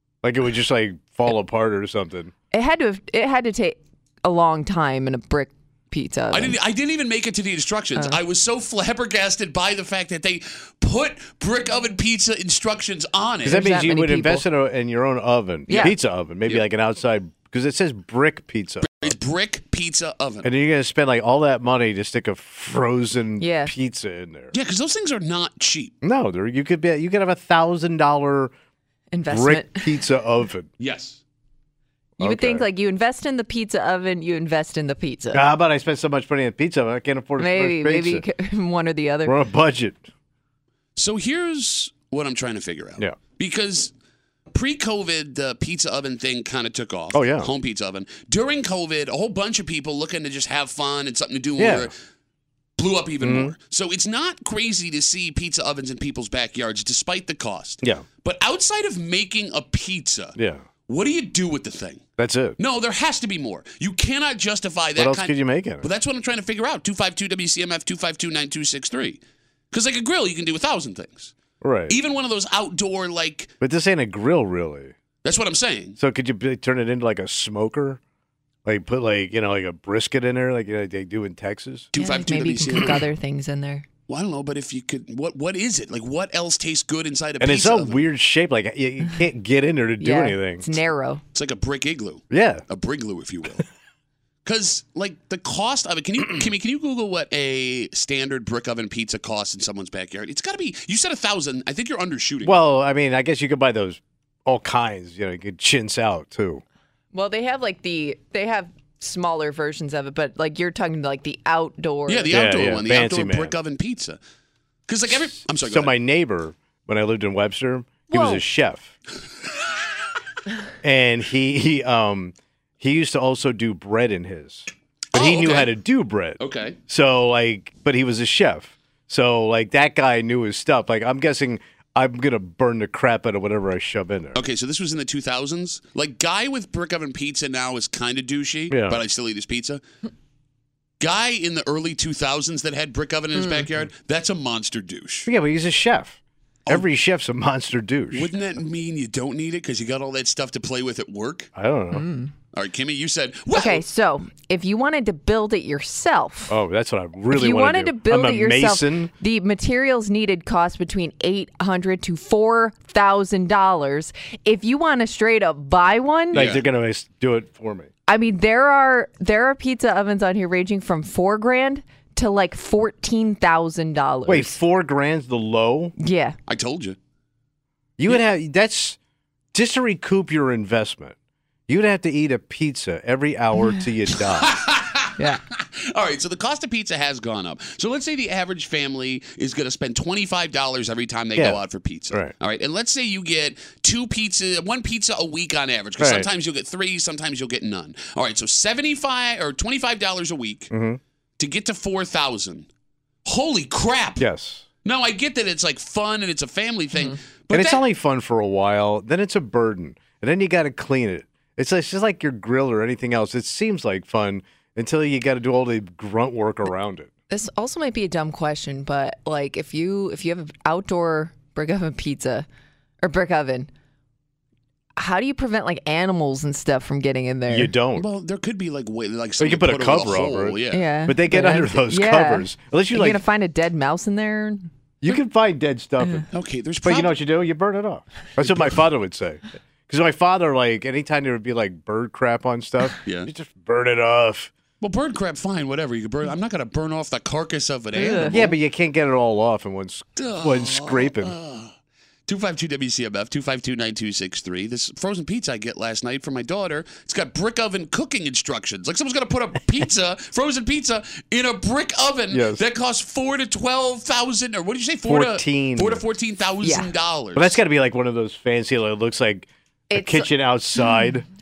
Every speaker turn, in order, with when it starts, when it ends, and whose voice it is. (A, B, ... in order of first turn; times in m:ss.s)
0:00.2-0:02.3 A
0:02.5-0:06.5 B
0:06.3-0:13.6 C
0:13.4-0:19.1 A
0:13.5-0:14.4 B
0:15.7-0:15.9 B
0:18.8-0:20.5 C
0:20.4-0:24.5 A
0:23.4-0:23.7 B
0:24.5-0:26.0 C
0:26.0-0:28.5 A
0:29.1-0:29.9 B
0:29.3-0:30.7 A
0:30.8-0:31.2 C
0:32.2-0:32.6 A
0:32.2-0:35.4 B
0:35.3-0:38.2 A
0:37.4-0:39.4 B
0:39.2-0:40.1 A
0:41.0-0:43.9 C
0:44.5-0:51.9 C
0:47.1-0:47.5 A
0:51.6-0:51.9 A
0:52.8-1:00.4 C
0:53.2-0:53.5 A
1:00.4-1:00.6 A
1:00.9-1:02.0 C
1:02.2-1:02.6 A
1:02.6-1:09.2 C
1:05.0-1:05.9 A
1:09.7-1:11.3 C
1:11.6-1:11.9 A
1:11.9-1:13.5 C
1:13.6-1:14.9 A
1:15.2-1:16.0 C
1:16.0-1:18.0 A
1:18.6-1:21.9 A
1:21.9-1:23.0 C
1:22.0-1:23.8 B
1:24.1-1:28.0 C
1:27.4-1:30.6 A
1:30.0-1:31.2 B
1:31.3-1:33.6 C
1:32.3-1:32.6 A
1:34.4-1:42.6 C
1:42.4-1:46.6 A
1:47.1-1:52.3 B
1:52.1-1:54.2 C
1:52.3-1:53.5 A
1:54.9-1:55.9 C
1:55.6-1:58.9 A
1:58.1-1:58.4 B
2:00.8-2:14.4 A
2:05.1-2:05.7 C
2:06.4-2:06.8 C
2:14.3-2:19.8 C
2:18.7-2:19.0 A
2:21.0-2:25.3 C
2:23.3-2:23.6 B
2:25.3-2:28.3 A
2:28.1-2:31.5 C
2:31.5-2:32.0 A
2:31.9-2:32.3 B
2:32.5-2:33.8 C
2:33.5-2:36.6 B
2:36.5-2:39.1 A
2:37.3-2:46.5 B
2:46.3-2:46.6 C
2:46.3-2:47.9 A
2:48.1-2:54.6 B
2:54.3-2:55.9 A
2:56.0-2:56.4 B
2:56.5-2:57.0 C
2:58.0-2:59.0 A
2:59.5-3:01.2 A
3:01.7-3:04.6 A
3:04.2-3:20.7 C
3:11.3-3:12.3 A
3:16.0-3:16.3 A
3:20.7-3:21.0 A
3:21.4-3:22.7 C
3:23.2-3:24.2 C
3:24.2-3:24.6 A
3:24.8-3:27.8 C
3:27.5-3:37.1 A
3:37.3-3:42.5 B
3:43.0-3:43.7 B
3:45.0-3:47.7 B
3:47.5-3:48.1 A
3:48.0-3:50.8 C
3:49.4-3:53.2 A
3:50.7-3:54.7 B
3:55.0-3:56.3 A
3:56.3-3:57.1 C
3:56.8-4:04.5 A
4:03.0-4:03.3 C
4:04.8-4:08.6 C
4:07.9-4:08.4 B
4:08.2-4:11.4 A
4:10.2-4:11.7 C
4:12.3-4:27.6 C
4:22.3-4:22.6 A
4:25.1-4:26.0 A
4:26.6-4:26.9 B
4:27.4-4:31.2 A
4:29.9-4:30.9 B